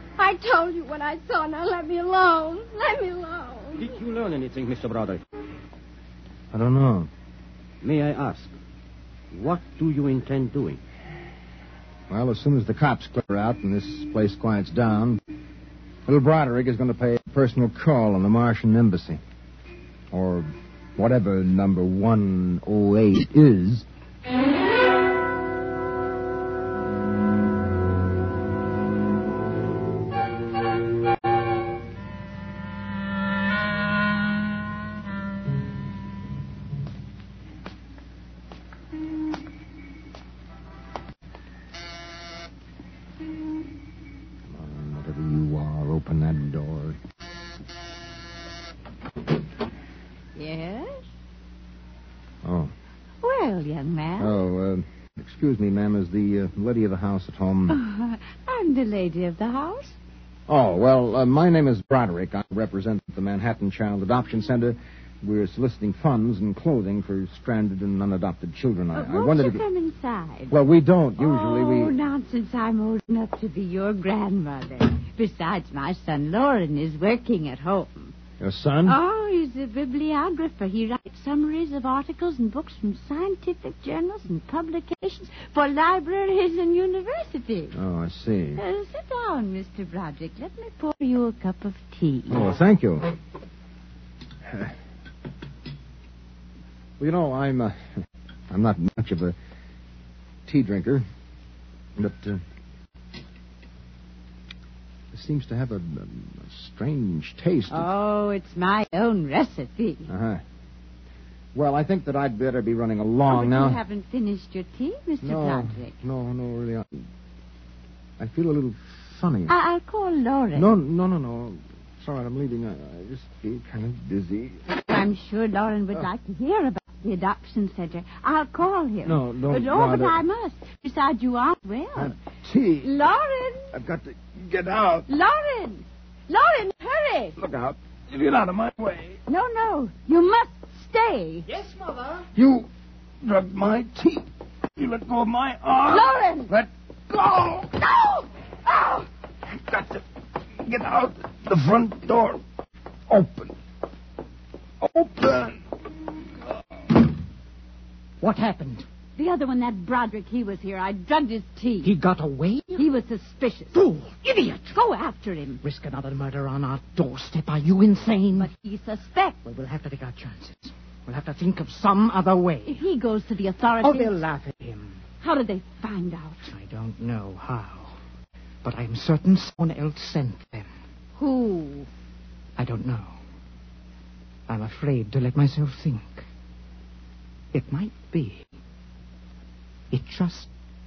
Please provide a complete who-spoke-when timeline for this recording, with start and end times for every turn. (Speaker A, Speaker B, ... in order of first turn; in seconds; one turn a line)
Speaker A: 0.2-3.9
Speaker B: 3.8-5.2
Speaker C: 6.5-7.1
Speaker B: 7.8-8.5
Speaker B: 9.3-10.8
Speaker C: 12.1-15.2
Speaker C: 16.1-19.2
Speaker C: 20.1-23.9
Speaker C: 44.5-47.0
Speaker D: 50.4-51.0
Speaker C: 52.4-52.7
Speaker D: 53.2-54.4
Speaker C: 54.2-57.8
Speaker D: 57.7-60.0
Speaker C: 60.5-69.6
Speaker D: 68.9-70.5
Speaker C: 70.5-72.0
Speaker D: 71.2-78.1
Speaker C: 78.4-79.0
Speaker D: 78.8-87.8
Speaker C: 87.7-88.6
Speaker D: 88.5-92.5
Speaker C: 92.3-93.1
Speaker C: 97.0-99.4
Speaker C: 100.5-101.0
Speaker C: 102.0-102.4
Speaker C: 105.1-107.9
Speaker D: 107.7-110.1
Speaker C: 110.1-110.4
Speaker C: 111.5-113.8
Speaker D: 113.3-115.9
Speaker C: 115.2-117.0
Speaker C: 118.2-119.5
Speaker D: 119.5-120.7
Speaker C: 120.5-124.6
Speaker D: 124.8-132.1
Speaker C: 129.0-130.2
Speaker C: 132.0-132.9
Speaker D: 132.8-133.7
Speaker C: 133.7-134.2
Speaker E: 134.3-135.1
Speaker D: 135.1-137.4
Speaker C: 137.4-137.8
Speaker E: 137.4-139.2
Speaker D: 139.3-141.4
Speaker E: 142.3-142.7
Speaker E: 143.2-144.2
Speaker E: 144.8-149.0
Speaker D: 145.9-146.5
Speaker E: 149.7-150.0
Speaker E: 150.6-152.4
Speaker E: 153.1-153.5
Speaker E: 154.8-155.5
Speaker F: 158.2-158.9
Speaker D: 159.2-161.9
Speaker F: 161.8-162.8
Speaker D: 162.8-163.8
Speaker F: 163.7-164.8
Speaker D: 164.7-165.6
Speaker F: 165.6-168.5
Speaker D: 168.3-169.4
Speaker F: 169.4-172.8
Speaker D: 172.7-174.2
Speaker F: 173.8-175.0
Speaker D: 175.2-176.5
Speaker F: 176.4-177.9
Speaker F: 178.6-180.7
Speaker D: 181.2-181.9
Speaker F: 182.6-183.2
Speaker F: 184.5-186.2
Speaker F: 187.5-188.5
Speaker F: 189.9-190.5